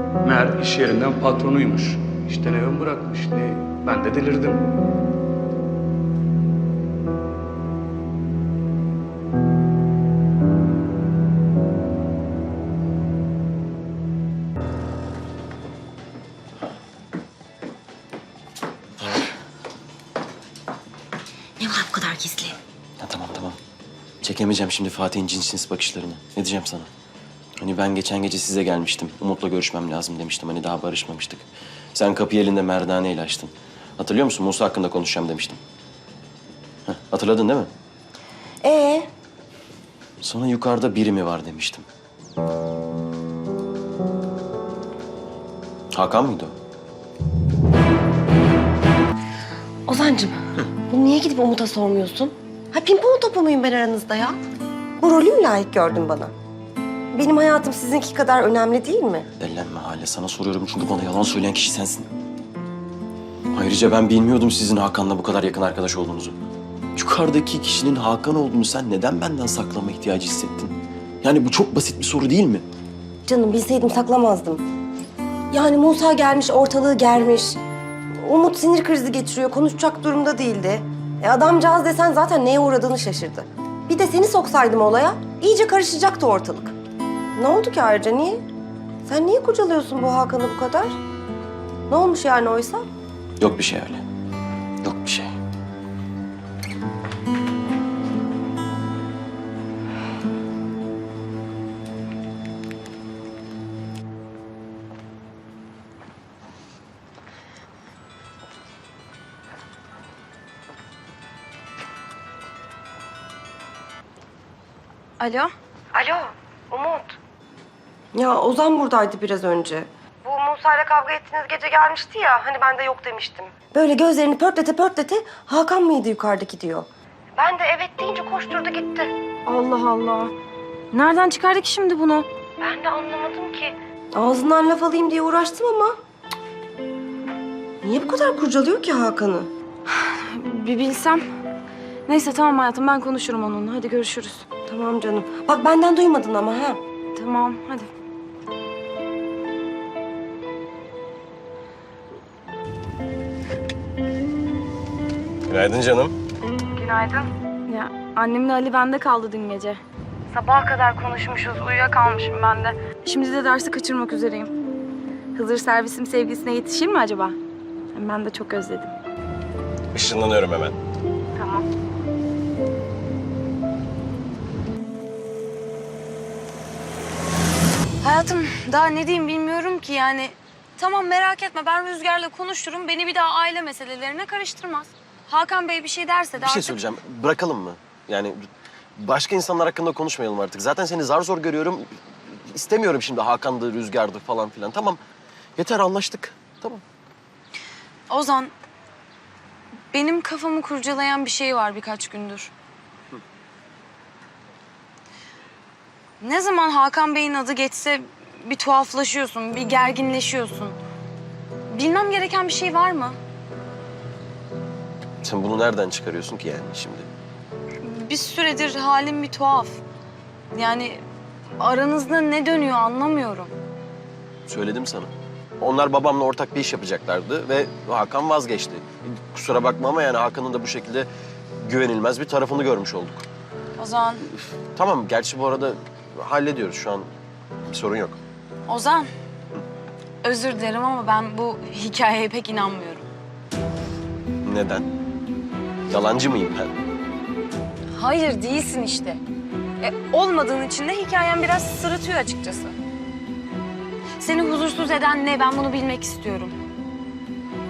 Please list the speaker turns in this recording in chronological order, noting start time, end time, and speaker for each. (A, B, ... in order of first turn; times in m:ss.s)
0:00.2-0:04.7 A
0:21.6-0:22.6 B
0:23.0-0:23.6 C
0:24.2-0:26.9 C
0:27.6-0:35.6 C
0:36.8-0:37.7 C
0:38.6-0:39.1 B
0:40.2-0:41.8 C
0:45.9-0:46.5 C
0:49.9-0:54.4 B
0:55.0-0:56.3 B
0:57.1-0:59.3 B
0:59.4-1:02.1 C
1:03.5-1:06.4 C
1:06.9-1:12.6 C
1:13.2-1:14.6 B
1:15.5-1:17.6 B
1:18.2-1:26.7 B
1:27.4-1:28.4 B
1:29.0-1:31.0 B
1:31.9-1:32.8 B
1:33.4-1:34.0 C
1:34.8-1:35.3 C
1:55.2-1:55.5 D
1:55.9-1:57.2 B
1:58.1-2:09.1 B
2:09.4-2:10.3 D
2:10.9-2:12.3 D
2:12.6-2:15.9 B
2:17.8-2:19.5 B
2:19.9-2:21.2 D
2:22.1-2:24.4 D
2:24.7-2:26.8 B
2:27.1-2:27.9 D
2:35.5-2:36.1 C
2:36.7-2:44.5 D
2:45.3-2:47.4 D
2:47.9-2:48.9 D
2:49.9-2:50.8 C
2:51.4-2:51.6 D
2:58.0-3:06.8 D
3:06.4-3:08.4 C
3:09.0-3:15.0 C
3:15.6-3:16.8 C
3:18.1-3:18.5 D
3:19.9-3:22.5 D
3:26.2-3:30.8 D
3:31.7-3:33.2 D
3:35.2-3:37.1 C
3:37.8-3:39.8 D
3:40.5-3:41.0 D
3:41.6-3:43.5 D
3:44.5-3:51.1 C
3:51.6-3:53.2 C
3:53.8-3:54.3 D
3:54.7-3:57.1 C
3:57.7-3:58.2 C
3:58.7-3:59.1 D
4:00.2-4:03.0 D
4:04.4-4:04.9 C
4:05.9-4:06.7 C
4:07.9-4:09.2 D
4:09.8-4:12.8 D
4:14.2-4:16.6 D